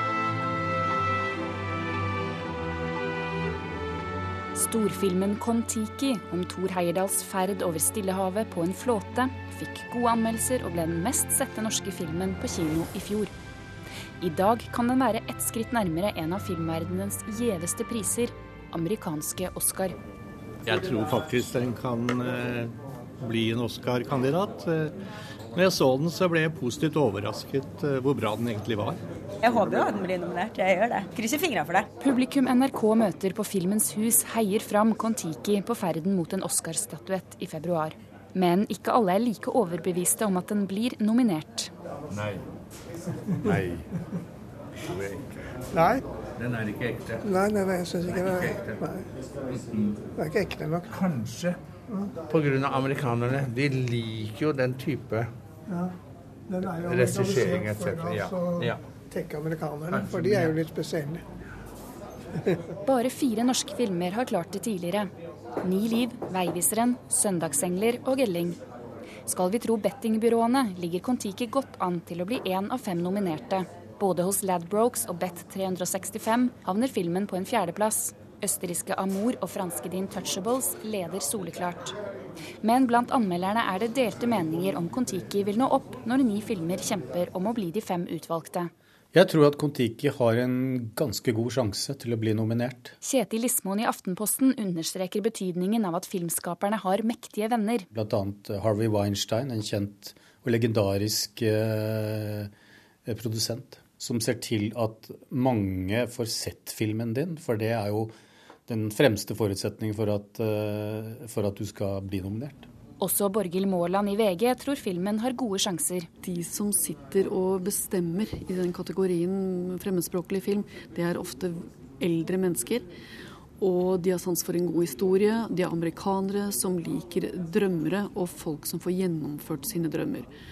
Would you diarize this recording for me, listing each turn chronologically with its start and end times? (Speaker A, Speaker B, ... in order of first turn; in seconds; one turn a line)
Speaker A: 4.5-13.3
Speaker A: 14.2-19.9
Speaker B: 20.6-24.9
Speaker B: 25.5-29.0
Speaker C: 29.4-31.9
Speaker A: 32.0-41.7
Speaker D: 42.1-42.4
Speaker B: 43.5-43.8
Speaker D: 44.8-45.4
Speaker D: 46.4-47.3
Speaker E: 47.2-49.0
Speaker D: 48.1-48.9
Speaker E: 50.1-50.9
Speaker D: 50.9-51.6
Speaker D: 52.3-55.3
Speaker E: 56.5-58.6
Speaker D: 56.6-58.8
Speaker E: 59.1-61.2
Speaker D: 59.9-60.6
Speaker A: 62.9-65.1
Speaker A: 65.6-68.6
Speaker A: 69.2-81.9
Speaker A: 82.6-88.7
Speaker F: 89.1-92.9
Speaker A: 93.0-97.9
Speaker F: 97.9-102.5
Speaker F: 103.1-108.1
Speaker F: 108.7-112.7
Speaker A: 113.0-116.1
Speaker G: 116.2-122.9
Speaker G: 123.6-130.3